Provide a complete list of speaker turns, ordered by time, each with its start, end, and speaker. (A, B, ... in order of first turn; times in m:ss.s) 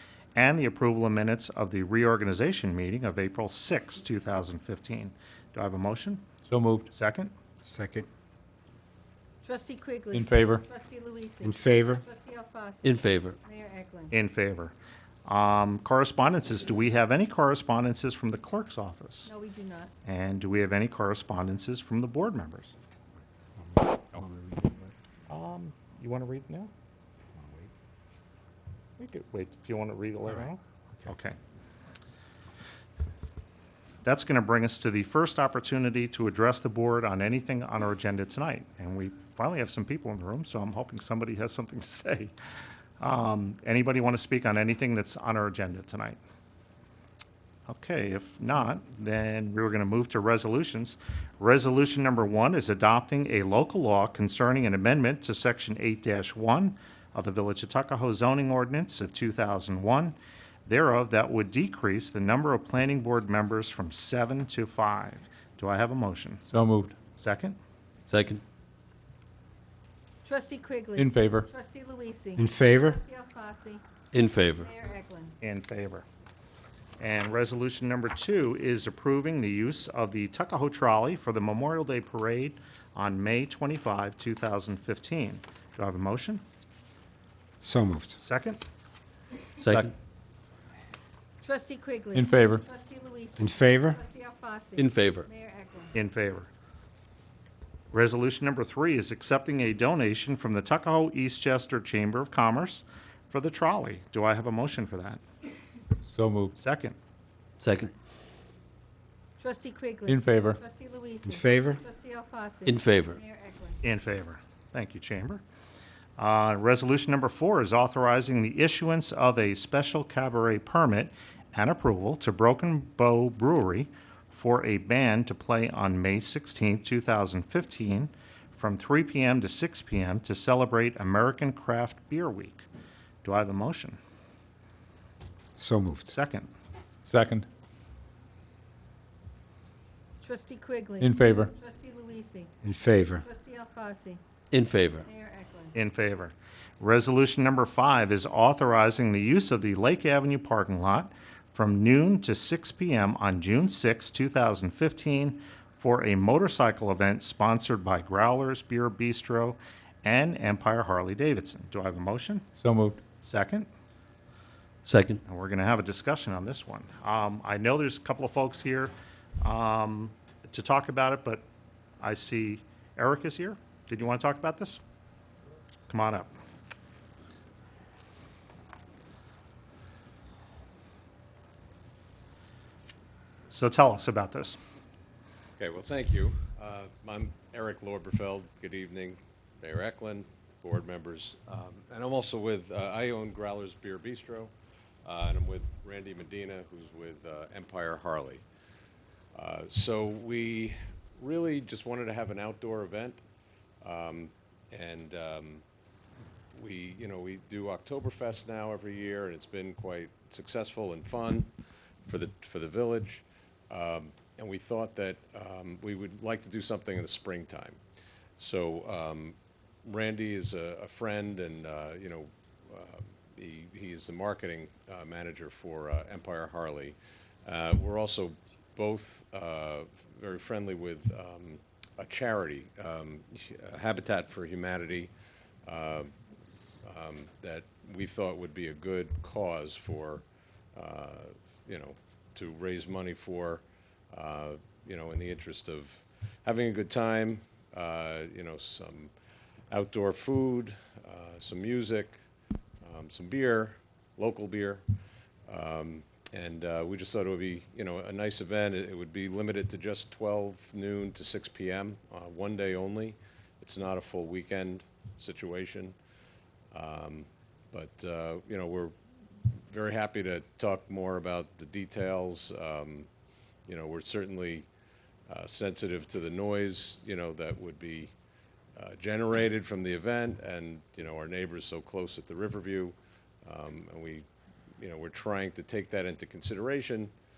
0:00.4-0:06.2 A
0:06.5-0:06.9 B
0:06.9-0:07.3 A
0:07.6-0:08.1 C
0:09.4-0:14.2 D
0:10.1-0:10.6 B
0:11.4-0:12.0 C
0:12.8-0:13.4 E
0:14.1-0:14.7 A
0:15.2-0:19.3 A
0:19.3-0:19.9 D
0:20.0-0:22.7 A
0:23.6-0:24.9 C
0:25.3-0:26.7 A
0:27.4-0:27.7 C
0:29.0-0:31.4 A
0:34.0-0:42.3 A
0:43.0-0:46.2 A
0:47.7-1:06.4 A
1:06.5-1:07.0 B
1:07.2-1:07.6 A
1:08.1-1:08.4 E
1:10.2-1:13.8 D
1:11.0-1:11.5 B
1:12.4-1:13.0 C
1:14.1-1:14.7 E
1:14.6-1:15.4 D
1:15.4-1:16.1 A
1:17.0-1:26.4 A
1:27.6-1:28.2 C
1:28.2-1:28.6 A
1:29.6-1:29.9 E
1:31.4-1:35.9 D
1:32.2-1:32.6 B
1:33.4-1:34.0 C
1:34.8-1:35.3 E
1:35.9-1:36.5 A
1:37.9-1:45.2 A
1:46.0-1:46.5 B
1:46.6-1:47.0 A
1:47.6-1:47.9 E
1:49.4-1:53.8 D
1:50.1-1:50.6 B
1:51.3-1:51.8 C
1:52.7-1:53.2 E
1:53.8-1:55.4 A
1:56.2-2:12.7 A
2:13.2-2:14.0 A
2:15.6-2:16.1 C
2:16.1-2:16.5 A
2:17.1-2:17.5 B
2:20.2-2:22.5 D
2:21.0-2:21.5 B
2:22.6-2:23.2 C
2:23.2-2:24.2 D
2:24.5-2:25.1 E
2:25.1-2:25.7 D
2:25.7-2:42.5 A
2:42.6-2:43.0 B
2:43.2-2:43.7 A
2:44.9-2:45.2 E
2:45.2-2:51.4 A
2:52.0-2:54.8 A
2:55.9-2:56.3 A
3:03.5-3:04.6 A
3:05.6-3:14.5 F
3:15.0-3:18.4 F
3:19.3-3:23.2 F
3:23.8-3:25.6 F
3:26.5-3:31.5 F
3:32.1-3:37.8 F
3:38.4-3:55.1 F
3:55.7-3:56.1 F
3:56.8-4:00.2 F
4:00.8-4:09.1 F
4:09.7-4:12.2 F
4:12.8-4:14.8 F
4:15.5-4:26.0 F
4:26.7-4:28.9 F
4:29.7-4:33.1 F
4:33.7-4:34.7 F
4:35.3-4:38.1 F
4:38.8-4:44.2 F
4:44.8-4:47.1 F